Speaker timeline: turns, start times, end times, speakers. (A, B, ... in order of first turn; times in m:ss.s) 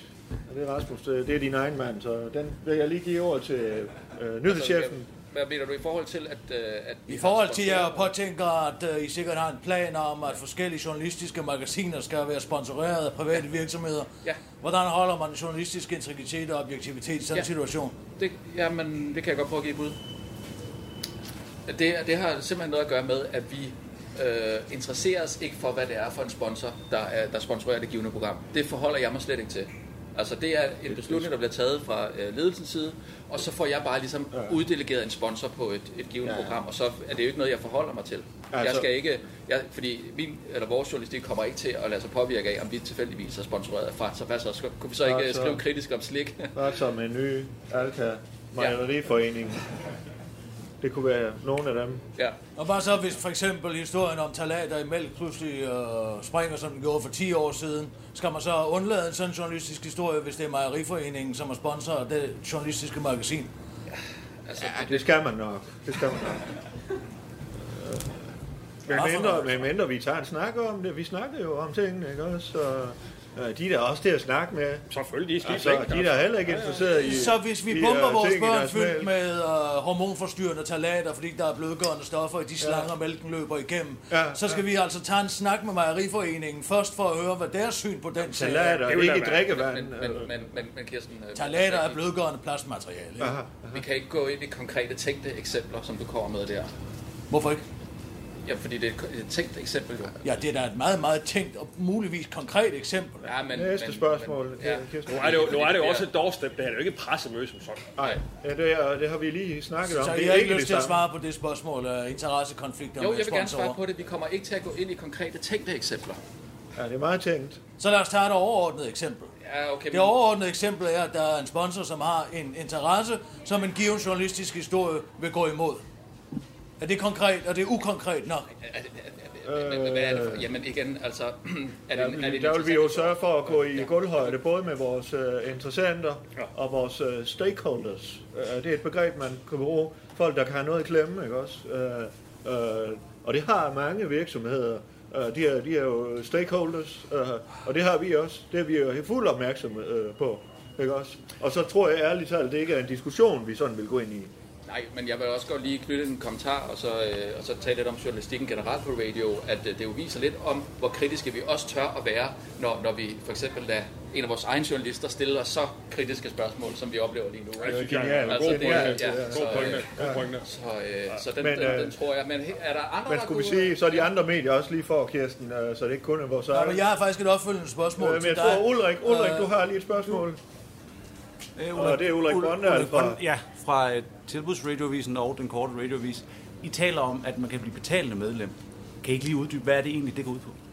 0:00.5-0:05.1 A
0:04.5-0:08.1 B
0:07.1-0:18.0 C
0:18.2-0:20.0 B
0:21.7-0:46.6 B
0:30.9-0:31.3 A
0:34.3-0:34.6 A
0:38.5-0:38.9 A
0:45.0-0:45.6 A
0:46.5-0:49.6 A
0:50.8-0:52.0 A
0:52.6-1:03.5 C
1:04.4-1:05.1 B
1:04.6-1:06.5 A
1:07.6-1:08.2 A
1:08.9-1:14.8 A
1:14.9-1:17.0 D
1:15.4-1:19.1 A
1:17.0-1:28.9 C
1:22.6-1:22.9 A
1:24.1-1:24.6 A
1:28.2-1:30.3 A
1:28.9-1:29.5 D
1:28.9-1:32.0 B
1:31.4-1:33.4 C
1:33.2-1:33.8 A
1:33.7-1:36.7 B
1:37.3-1:37.6 C
1:38.4-1:40.3 B
1:40.2-1:43.3 C
1:43.2-1:46.1 B
1:43.5-1:45.5 A
1:45.1-1:47.9 D
1:48.0-1:51.0 A
1:49.9-1:53.8 C
1:53.0-1:56.2 B
1:56.8-1:57.6 A
1:57.8-1:59.3 C
1:59.4-2:00.2 B
1:59.9-2:05.8 C
2:06.8-2:08.5 C
2:08.6-2:13.9 B
2:09.4-2:10.5 A
2:11.9-2:34.3 A
2:34.7-2:54.1 B
2:47.6-2:50.4 D
2:47.7-2:50.3 A
2:51.3-2:52.0 A
2:53.1-2:56.8 A
2:56.5-2:59.5 C
2:58.0-3:00.4 A
3:01.6-3:10.6 E
3:01.8-3:03.2 A